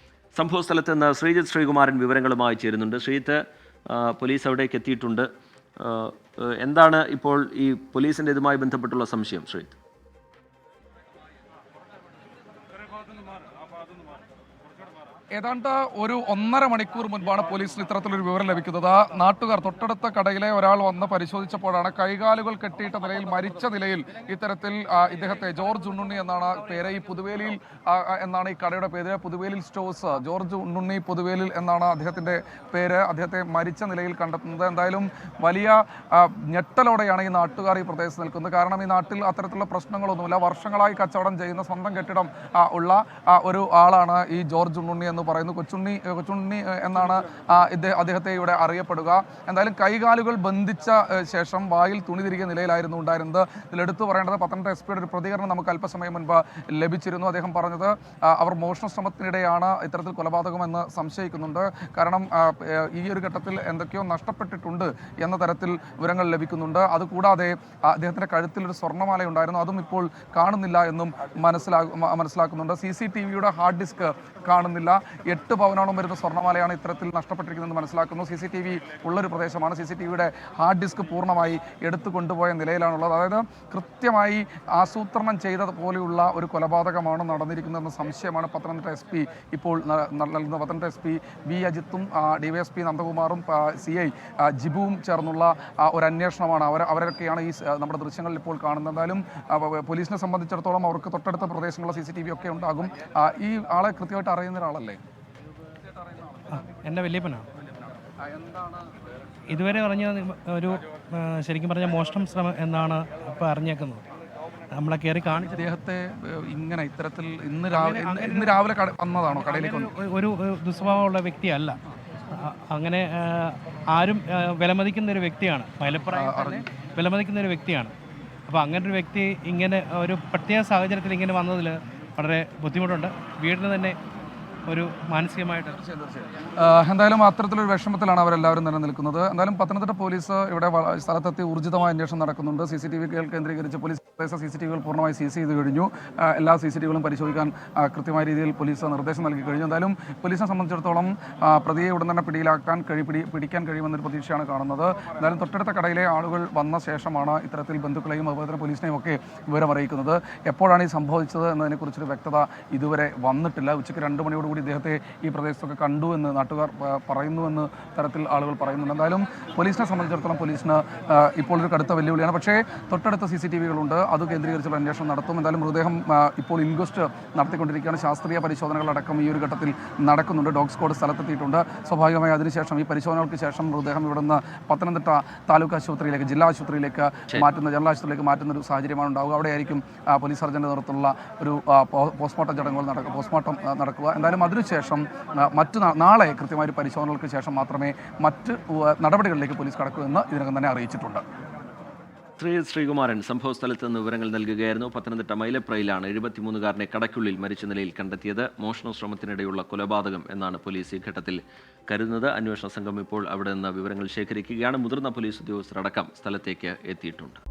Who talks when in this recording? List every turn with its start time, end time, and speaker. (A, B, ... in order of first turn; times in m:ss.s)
0:00.4-0:05.3 A
0:05.8-0:09.8 A
0:15.3-1:45.0 B
1:46.5-1:47.5 C
1:49.5-1:54.0 C
1:54.7-1:55.6 C
1:55.5-1:59.9 B
1:57.7-1:58.6 C
1:59.3-2:01.8 C
2:02.3-2:07.9 C
2:06.1-2:06.6 B
2:08.5-2:14.0 C
2:14.7-2:15.8 C
2:15.7-3:21.2 B
3:22.4-3:37.4 A